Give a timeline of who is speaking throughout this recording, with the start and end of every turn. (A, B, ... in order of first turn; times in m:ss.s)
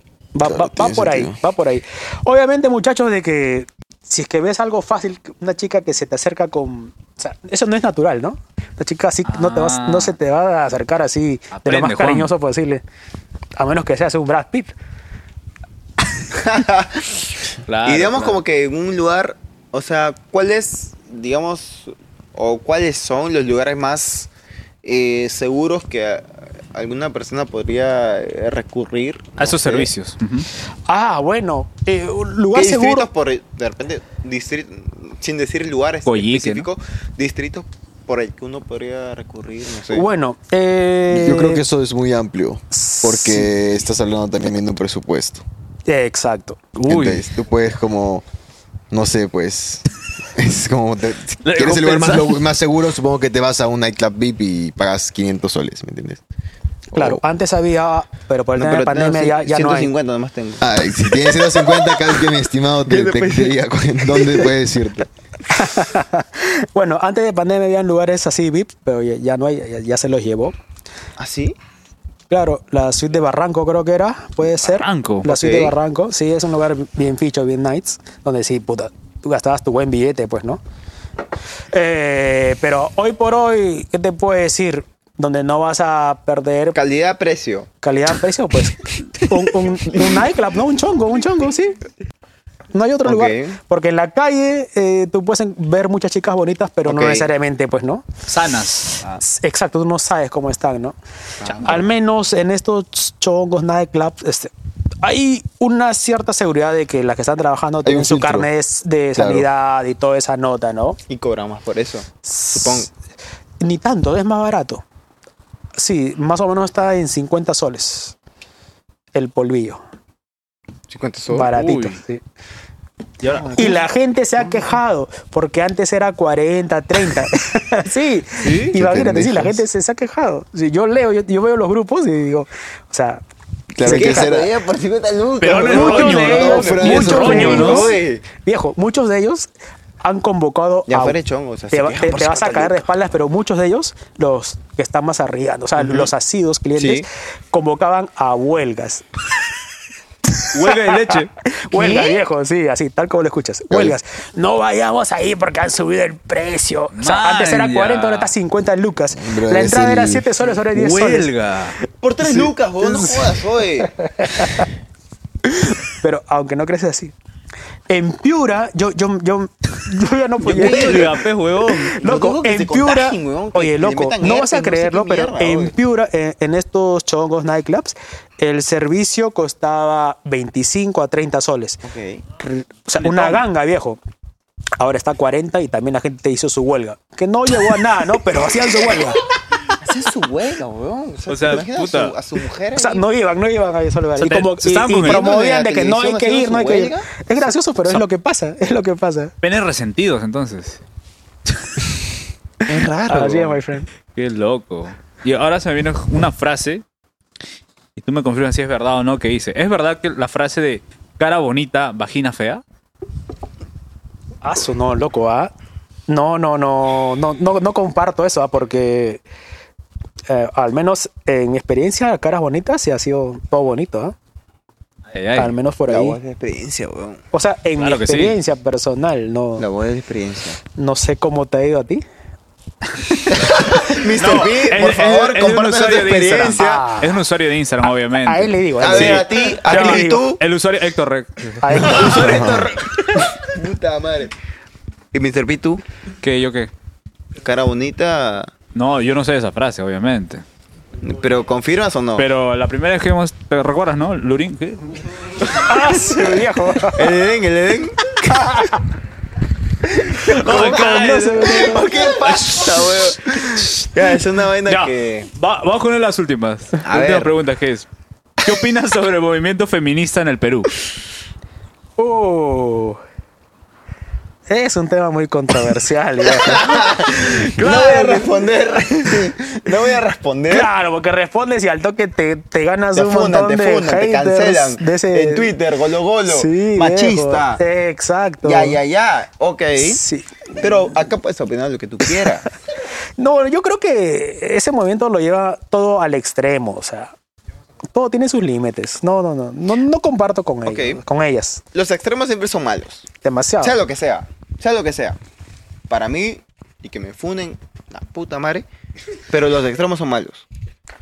0:00.4-0:12.8 A
0:00.4-0:01.4 B
0:09.2-0:10.2 C
0:11.6-0:12.3 C
0:13.6-0:14.7 A
0:16.3-0:24.3 D
0:17.7-0:18.4 C
0:24.8-0:29.9 D
0:29.4-0:30.5 C
0:30.9-0:33.1 A
0:32.5-0:40.1 D
0:36.1-0:36.7 C
0:39.9-0:41.6 A
0:41.1-0:45.4 B
0:42.7-0:43.5 A
0:45.9-0:46.6 A
0:46.8-0:47.2 C
0:46.9-0:48.2 B
0:48.9-0:49.8 B
0:50.4-0:56.2 B
0:51.4-0:52.4 C
0:56.9-0:57.2 B
0:57.0-0:59.9 A
0:58.6-1:00.6 D
1:00.6-1:05.1 B
1:02.9-1:03.6 D
1:05.5-1:10.6 A
1:11.2-1:11.6 D
1:12.3-1:20.6 A
1:14.4-1:15.4 C
1:15.3-1:15.7 D
1:21.7-1:26.8 A
1:26.7-1:27.7 D
1:27.8-1:31.8 A
1:32.7-1:38.0 A
1:33.0-1:33.6 D
1:36.8-1:37.3 D
1:38.3-1:39.0 C
1:39.2-1:41.0 A
1:41.4-1:41.9 D
1:41.6-1:44.5 A
1:45.0-1:51.0 A
1:47.8-1:48.5 B
1:49.2-1:49.5 B
1:51.1-1:52.9 D
1:52.2-1:52.9 A
1:53.6-1:54.8 A
1:55.8-1:58.2 A
1:59.1-1:59.8 A
2:00.9-2:01.5 D
2:01.3-2:02.2 A
2:01.5-2:02.0 C
2:03.2-2:03.7 C
2:03.3-2:03.8 D
2:03.6-2:13.2 A
2:08.4-2:08.7 C
2:08.7-2:09.6 B
2:13.7-2:14.5 B
2:13.8-2:14.3 A
2:13.9-2:18.2 D
2:15.4-2:17.9 C
2:15.6-2:19.5 A
2:16.0-2:17.8 B
2:20.0-2:21.2 A
2:20.9-2:22.8 D
2:21.7-2:29.0 A
2:25.8-2:26.1 D
2:26.8-2:27.1 D
2:30.5-2:32.1 C
2:30.6-2:31.1 A
2:31.7-2:41.3 A
2:33.7-2:34.0 B
2:36.9-2:38.3 C
2:39.1-2:40.3 B
2:40.7-2:41.8 C
2:42.0-2:43.9 D
2:42.2-2:43.2 A
2:44.2-2:44.7 A
2:45.9-2:47.1 A
2:47.9-2:51.1 A
2:50.4-2:51.2 D
2:50.5-2:52.0 C
2:51.9-3:01.8 A
2:52.0-2:55.7 D
3:01.8-3:02.2 D
3:02.4-3:04.0 A
3:03.0-3:03.4 C
3:04.8-3:09.2 A
3:09.8-3:13.1 D
3:11.3-3:12.2 C
3:12.8-3:19.3 A
3:14.2-3:15.3 C
3:15.0-3:17.1 D
3:19.4-3:20.8 C
3:22.7-3:23.6 D
3:23.1-3:23.9 A
3:24.2-3:26.8 C
3:28.0-3:32.6 C
3:34.4-3:35.5 A
3:36.1-3:39.2 A
3:40.3-3:44.2 A
3:45.1-3:45.5 C
3:45.4-3:46.2 A
3:45.9-3:47.2 D
3:47.3-3:49.7 A
3:47.8-3:48.4 C
3:49.6-3:50.6 D
3:50.8-3:52.0 A
3:53.3-3:56.8 D
3:54.2-4:02.4 C
3:56.6-3:57.2 A
3:58.3-4:00.2 A
3:58.8-4:00.4 D
4:01.6-4:02.4 A
4:01.8-4:04.3 D
4:02.1-4:02.7 B
4:05.1-4:05.8 D
4:06.2-4:06.7 C
4:07.4-4:08.5 D
4:08.8-4:10.4 C
4:11.0-4:12.2 D
4:12.2-4:14.8 C
4:15.6-4:17.0 A
4:17.0-4:18.7 D
4:20.0-4:25.3 D
4:20.4-4:22.9 C
4:20.4-4:21.9 A
4:24.7-4:27.9 C
4:26.8-4:27.3 D
4:28.4-4:30.7 C
4:32.0-4:33.0 A
4:34.5-4:37.0 A
4:36.3-4:40.7 D
4:37.6-4:38.3 C
4:40.5-4:45.6 A
4:42.9-4:47.6 D
4:46.3-4:48.8 A
4:48.4-4:50.0 D
4:49.8-4:50.7 A
4:50.6-4:52.5 D
4:53.2-4:57.1 A
4:57.9-5:01.6 A
5:00.6-5:01.0 D
5:01.7-5:03.1 D
5:03.2-5:03.8 A
5:03.6-5:05.2 D
5:05.9-5:08.7 D
5:09.3-5:10.4 D